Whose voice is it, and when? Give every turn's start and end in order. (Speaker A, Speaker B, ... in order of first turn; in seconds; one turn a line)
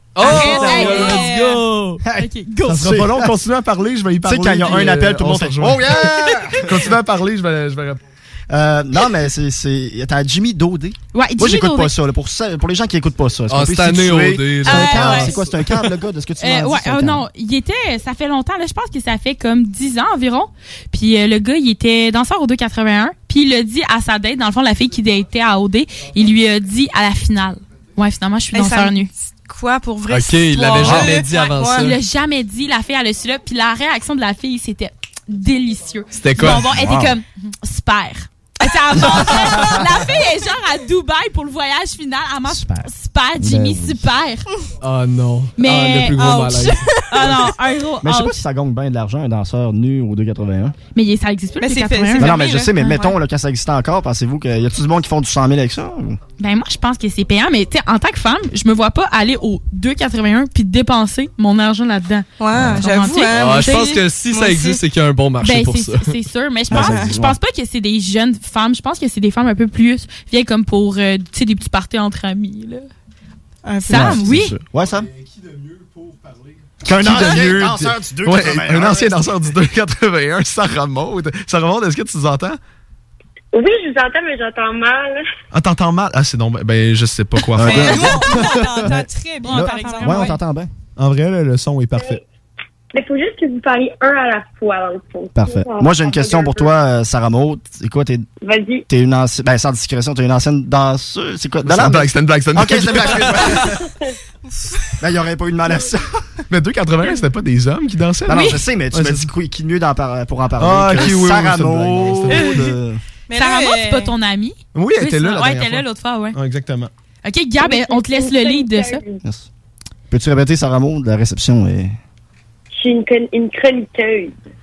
Speaker A: 0.1-2.0
Speaker B: 0.2-1.5
Speaker C: 0.2-1.6
Speaker D: 2.0-3.3
Speaker B: 2.1-3.0
Speaker E: 2.7-8.0
Speaker D: 4.2-6.8
Speaker D: 8.5-17.2
Speaker B: 11.1-11.9
Speaker A: 13.5-15.4
Speaker B: 14.7-15.3
Speaker B: 16.4-29.1
Speaker C: 28.5-31.9
Speaker A: 30.1-32.0
Speaker B: 31.3-44.5
Speaker A: 36.1-36.7
Speaker D: 36.4-37.1
Speaker D: 39.2-39.9
Speaker D: 42.5-42.9
Speaker D: 43.4-44.1
Speaker A: 44.8-46.9
Speaker B: 45.6-48.4
Speaker C: 46.2-47.3
Speaker D: 48.0-50.8
Speaker B: 51.0-53.1
Speaker C: 51.6-53.1
Speaker D: 52.2-56.2
Speaker B: 56.4-63.9
Speaker C: 62.4-64.8
Speaker A: 63.3-66.1
Speaker B: 65.4-72.8
Speaker C: 66.7-67.1
Speaker D: 66.7-67.4
Speaker C: 73.7-74.2
Speaker B: 73.9-74.5
Speaker D: 73.9-75.1
Speaker E: 74.8-82.6
Speaker D: 76.8-79.3
Speaker F: 83.5-85.2
Speaker E: 85.5-88.8
Speaker D: 87.6-90.7
Speaker C: 87.6-90.4
Speaker B: 89.4-90.4
Speaker E: 91.0-92.2
Speaker F: 92.9-96.7
Speaker D: 95.3-98.3
Speaker F: 98.4-98.8
Speaker D: 98.9-103.8
Speaker E: 101.6-103.7
Speaker C: 104.5-105.0
Speaker D: 105.0-106.2
Speaker E: 106.5-109.3
Speaker D: 108.3-113.0
Speaker B: 108.3-108.6
Speaker E: 110.6-112.5
Speaker B: 112.3-112.7
Speaker C: 113.3-114.1
Speaker B: 113.3-116.4
Speaker E: 114.7-116.9
Speaker B: 117.2-119.0
Speaker F: 117.6-119.2
Speaker D: 120.1-122.0
Speaker F: 122.7-124.3